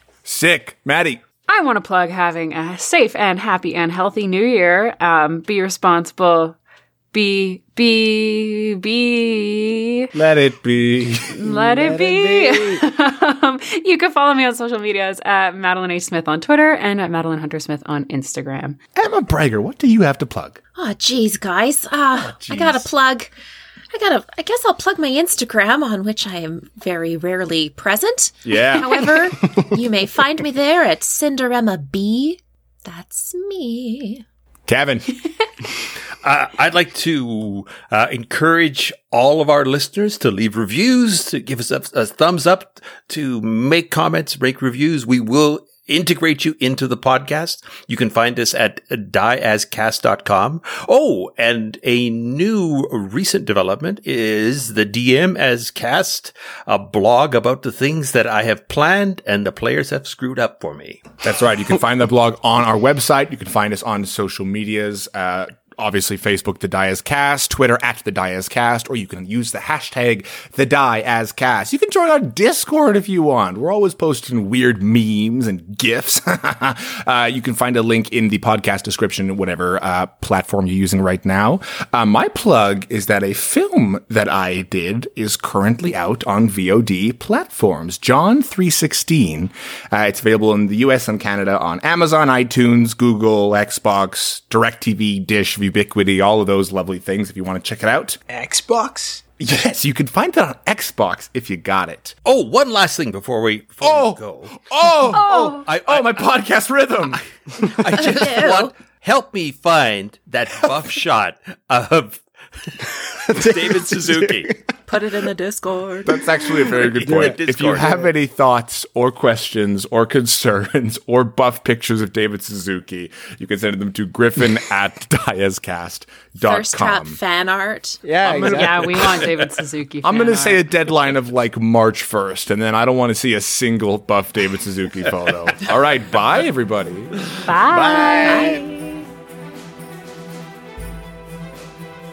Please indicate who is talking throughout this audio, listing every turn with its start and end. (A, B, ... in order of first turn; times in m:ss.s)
0:00.2-0:01.2 A
0:01.5-0:06.6 B
0:07.1-0:10.1 B
0:10.1-0:11.4 A
0:11.3-0:18.8 B
0:11.4-0:12.8 C
0:19.0-0:20.6 A
0:20.8-0:23.3 D
0:22.3-0:22.9 A
0:23.9-0:34.2 D
0:28.4-0:29.2 A
0:34.7-0:35.2 A
0:36.2-1:01.0 E
1:01.2-1:38.2 A
1:38.3-1:39.2 C
1:39.4-1:42.1 A
1:42.2-1:46.2 E
1:43.8-1:47.2 A
1:45.1-1:45.7 B
1:47.6-1:54.6 E
1:47.6-1:48.7 D
1:53.3-1:54.6 C
1:54.9-1:56.3 D
1:56.0-2:07.2 A
1:56.7-1:58.0 E
1:57.1-1:58.1 C
2:06.4-2:08.0 D
2:08.0-2:08.8 C
2:08.2-2:09.3 A
2:08.4-2:10.6 B
2:10.0-2:18.5 A
2:17.4-2:18.5 B
2:18.2-2:19.0 D